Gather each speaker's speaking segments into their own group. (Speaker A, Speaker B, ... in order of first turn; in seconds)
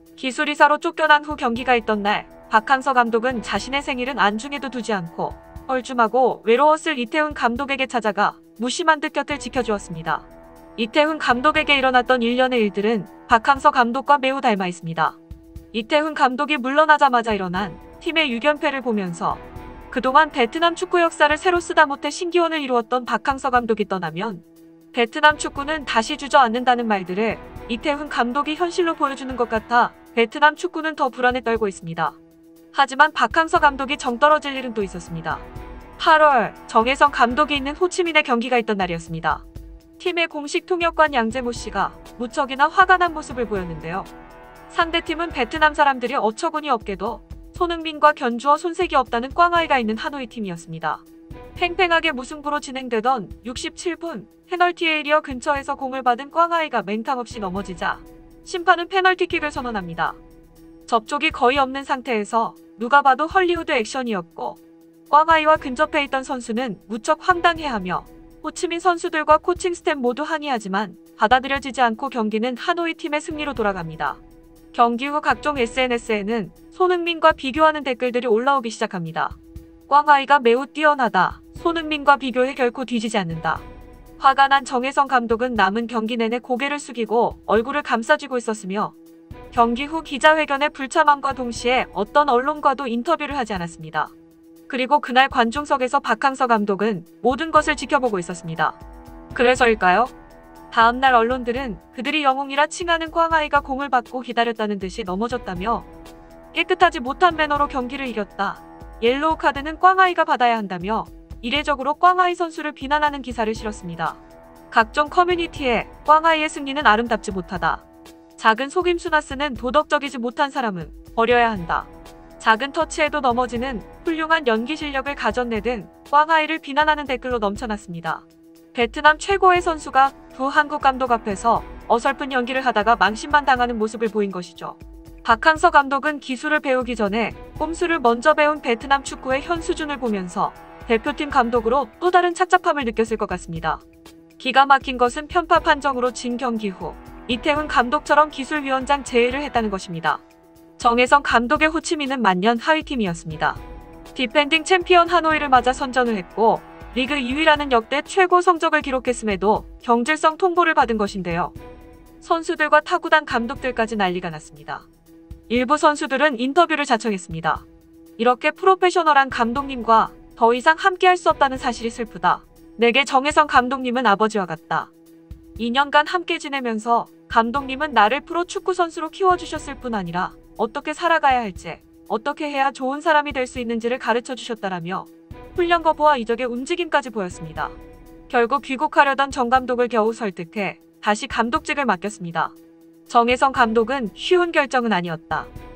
Speaker A: 0.2-15.2, 15.7-32.2, 32.7-35.4, 36.0-39.5, 40.0-44.1, 44.7-51.0, 51.6-60.2, 60.9-74.2, 74.7-83.7, 84.2-89.0, 89.5-94.1, 94.7-98.8, 99.3-100.1, 100.7-105.9, 106.5-114.2, 114.7-117.8, 118.4-143.8, 144.4-150.2, 150.8-153.6, 154.1-161.5, 162.2-164.9, 165.5-167.7, 168.2-174.9, 175.6-187.8, 188.3-192.6, 193.1-195.5